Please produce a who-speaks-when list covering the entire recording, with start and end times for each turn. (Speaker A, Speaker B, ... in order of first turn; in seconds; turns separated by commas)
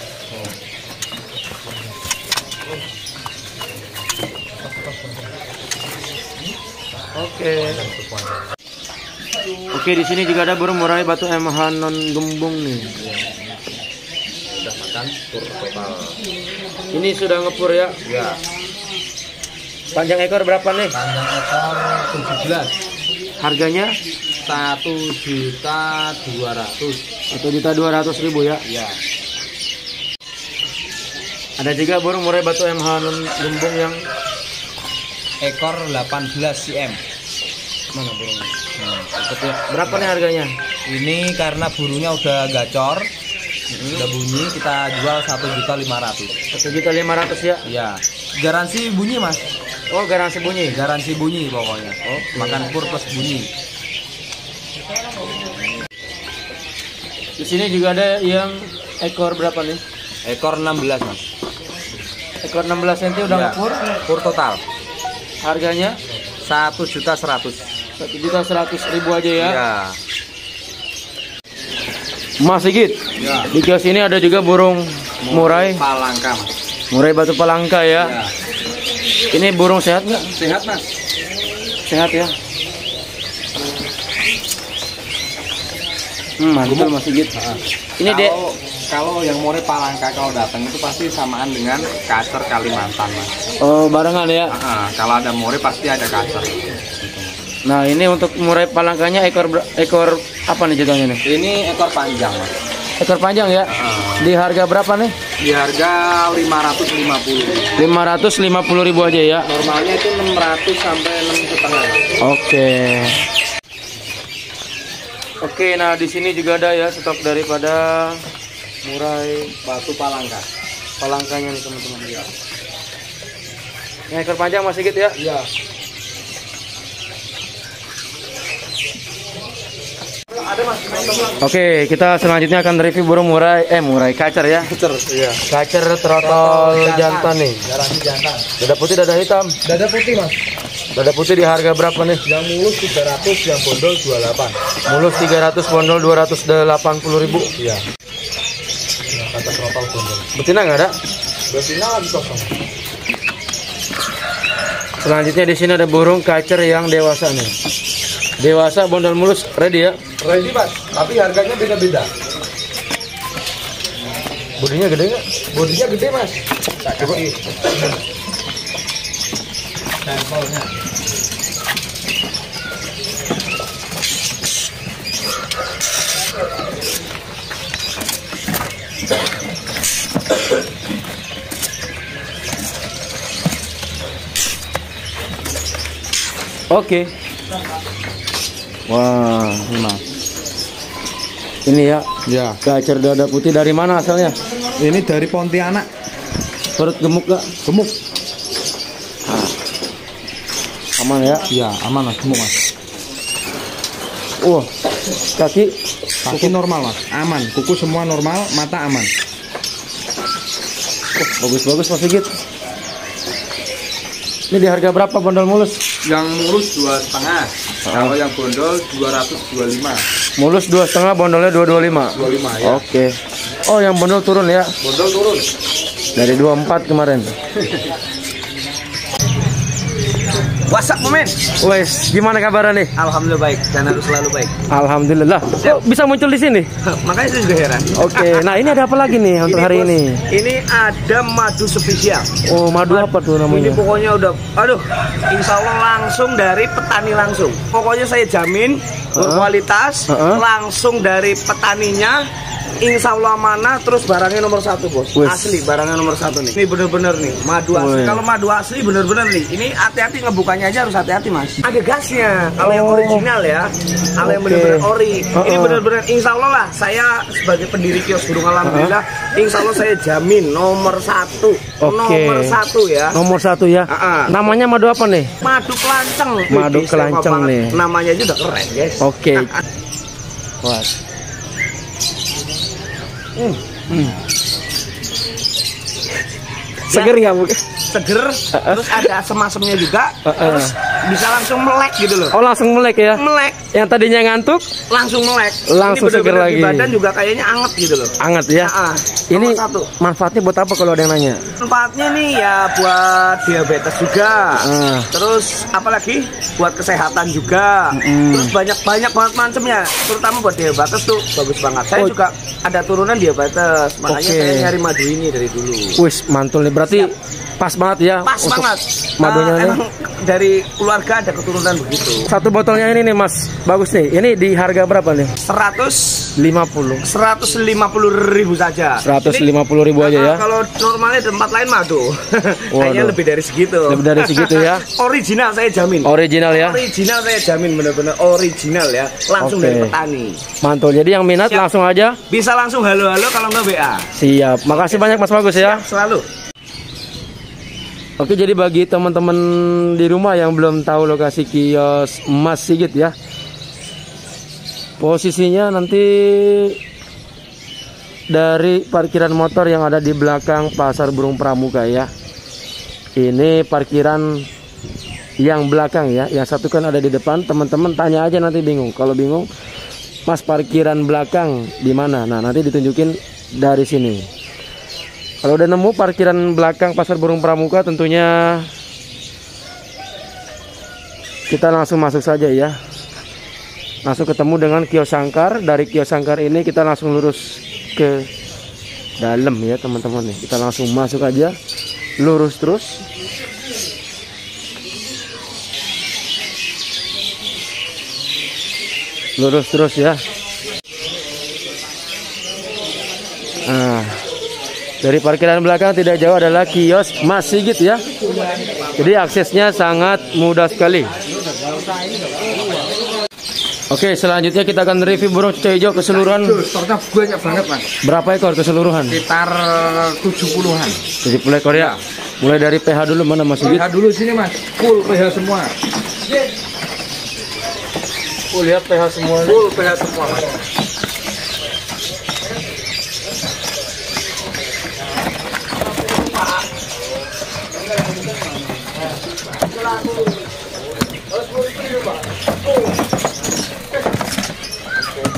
Speaker A: 4.6-5.3, Speaker B: 7.2-7.8, Speaker A: 7.5-8.4, Speaker B: 9.7-12.9, Speaker A: 13.0-13.4, Speaker A: 14.5-16.2, Speaker B: 16.9-18.0, Speaker A: 18.0-18.4, Speaker B: 19.9-20.9, Speaker A: 20.9-22.7, Speaker B: 23.4-23.9, Speaker A: 24.4-27.0, Speaker B: 27.3-28.6, Speaker A: 28.6-29.0, Speaker B: 31.6-34.0, Speaker A: 35.4-37.0, Speaker B: 37.9-38.5, Speaker A: 38.8-40.1, Speaker B: 39.4-40.5, Speaker A: 40.9-43.1, Speaker B: 43.7-44.0, Speaker A: 43.9-46.3, Speaker B: 46.5-47.6, Speaker A: 47.6-49.4, Speaker B: 49.9-50.8, Speaker A: 50.7-53.5, Speaker B: 57.4-59.8, Speaker A: 60.2-61.2, Speaker B: 62.4-64.0, Speaker A: 63.2-64.6, Speaker B: 65.4-66.0, Speaker A: 66.4-67.6, Speaker B: 68.0-69.6, Speaker A: 69.4-70.0, Speaker B: 72.4-73.0, Speaker A: 73.2-73.5, Speaker B: 73.5-75.8, Speaker A: 75.2-76.5, Speaker B: 76.9-78.2, Speaker A: 78.0-78.3, Speaker B: 79.3-80.3, Speaker A: 80.3-80.9, Speaker B: 81.8-82.3, Speaker B: 86.4-87.3, Speaker A: 86.6-93.3, Speaker B: 88.0-88.3, Speaker B: 93.6-94.6, Speaker A: 94.5-97.4, Speaker B: 97.6-101.2, Speaker A: 101.2-102.5, Speaker B: 103.0-105.1, Speaker A: 103.7-104.3, Speaker A: 105.4-107.7, Speaker B: 107.8-109.5, Speaker A: 109.5-112.0, Speaker B: 112.2-113.2, Speaker B: 115.4-118.2, Speaker B: 118.8-119.5, Speaker A: 119.6-120.5, Speaker B: 121.0-122.2, Speaker B: 124.1-125.2, Speaker A: 125.2-125.5, Speaker A: 130.3-131.4, Speaker B: 131.4-134.7, Speaker A: 134.6-135.4, Speaker B: 135.4-137.6, Speaker A: 136.2-138.5, Speaker B: 138.6-139.6, Speaker A: 139.6-140.3, Speaker B: 140.9-142.2, Speaker A: 142.2-144.6, Speaker B: 144.9-147.5, Speaker A: 147.6-147.8, Speaker A: 149.1-150.2, Speaker B: 150.3-150.9, Speaker A: 151.5-152.5, Speaker B: 155.0-157.5, Speaker B: 158.4-160.0, Speaker A: 160.2-162.1, Speaker B: 164.6-165.2, Speaker A: 165.5-167.9, Speaker A: 170.0-170.7, Speaker B: 186.7-187.1, Speaker B: 188.9-189.7, Speaker A: 189.7-190.0, Speaker B: 191.7-192.1, Speaker A: 192.2-192.6, Speaker B: 192.6-194.3, Speaker A: 194.8-195.9, Speaker B: 196.8-197.5, Speaker A: 197.6-197.9, Speaker B: 201.0-201.4, Speaker A: 201.5-202.6, Speaker B: 204.4-204.7, Speaker B: 205.3-205.7, Speaker A: 206.2-209.1, Speaker B: 206.3-206.5, Speaker B: 211.2-212.3, Speaker B: 214.5-215.8, Speaker A: 216.0-220.0, Speaker B: 217.9-218.2, Speaker B: 220.4-223.1, Speaker A: 222.0-222.8, Speaker B: 223.7-224.7, Speaker A: 224.8-225.5, Speaker B: 226.2-227.3, Speaker C: 230.7-231.4, Speaker B: 231.6-232.9, Speaker C: 233.0-234.5, Speaker B: 234.7-236.7, Speaker C: 235.6-235.8, Speaker C: 236.8-238.8, Speaker B: 237.9-240.2, Speaker C: 239.4-242.3, Speaker B: 242.4-243.8, Speaker C: 242.8-252.2, Speaker B: 249.1-249.5, Speaker B: 250.1-250.4, Speaker C: 252.8-273.2, Speaker B: 255.1-255.5, Speaker B: 257.7-258.2, Speaker B: 262.6-263.3, Speaker B: 264.2-265.8, Speaker B: 268.6-269.0, Speaker B: 271.8-272.6, Speaker B: 273.1-275.3, Speaker C: 273.9-274.4, Speaker C: 275.4-279.5, Speaker B: 276.5-277.8, Speaker B: 279.0-279.5, Speaker B: 280.6-280.9, Speaker B: 283.4-284.2, Speaker B: 286.9-287.6, Speaker C: 286.9-287.1, Speaker C: 287.9-292.3, Speaker B: 288.5-289.1, Speaker B: 290.2-290.7, Speaker B: 292.3-294.7, Speaker C: 293.1-293.6, Speaker C: 294.9-299.9, Speaker B: 295.7-296.9, Speaker B: 298.2-298.7, Speaker B: 299.3-301.4, Speaker C: 301.6-316.0, Speaker B: 304.6-305.1, Speaker B: 307.9-308.5, Speaker B: 314.1-314.7, Speaker B: 315.9-319.8, Speaker C: 316.8-317.1, Speaker C: 318.2-322.3, Speaker B: 322.3-325.3, Speaker C: 325.4-326.3, Speaker B: 326.4-327.1, Speaker C: 327.0-340.4, Speaker B: 329.0-330.4, Speaker B: 332.7-333.1, Speaker B: 333.9-334.9, Speaker B: 336.0-336.8, Speaker B: 339.4-339.9, Speaker B: 340.6-342.2, Speaker C: 342.3-344.1, Speaker B: 344.1-345.9, Speaker C: 344.7-346.2, Speaker B: 348.2-353.1, Speaker B: 355.0-356.8, Speaker B: 358.3-362.1, Speaker B: 363.1-364.4, Speaker B: 365.4-369.5, Speaker B: 370.2-374.3, Speaker B: 375.4-378.7, Speaker B: 381.5-382.8, Speaker B: 384.0-388.3, Speaker B: 389.2-391.6, Speaker B: 392.2-393.0, Speaker B: 399.4-400.2, Speaker B: 403.6-404.2, Speaker B: 405.0-408.0, Speaker A: 408.1-409.1, Speaker B: 409.0-411.1, Speaker A: 411.2-412.9, Speaker B: 413.9-416.6, Speaker A: 416.1-417.9, Speaker B: 418.0-419.2, Speaker A: 419.1-421.0, Speaker B: 421.2-423.9, Speaker A: 421.7-422.0, Speaker A: 423.6-425.7, Speaker B: 428.5-429.6, Speaker A: 429.4-430.6, Speaker B: 441.5-442.2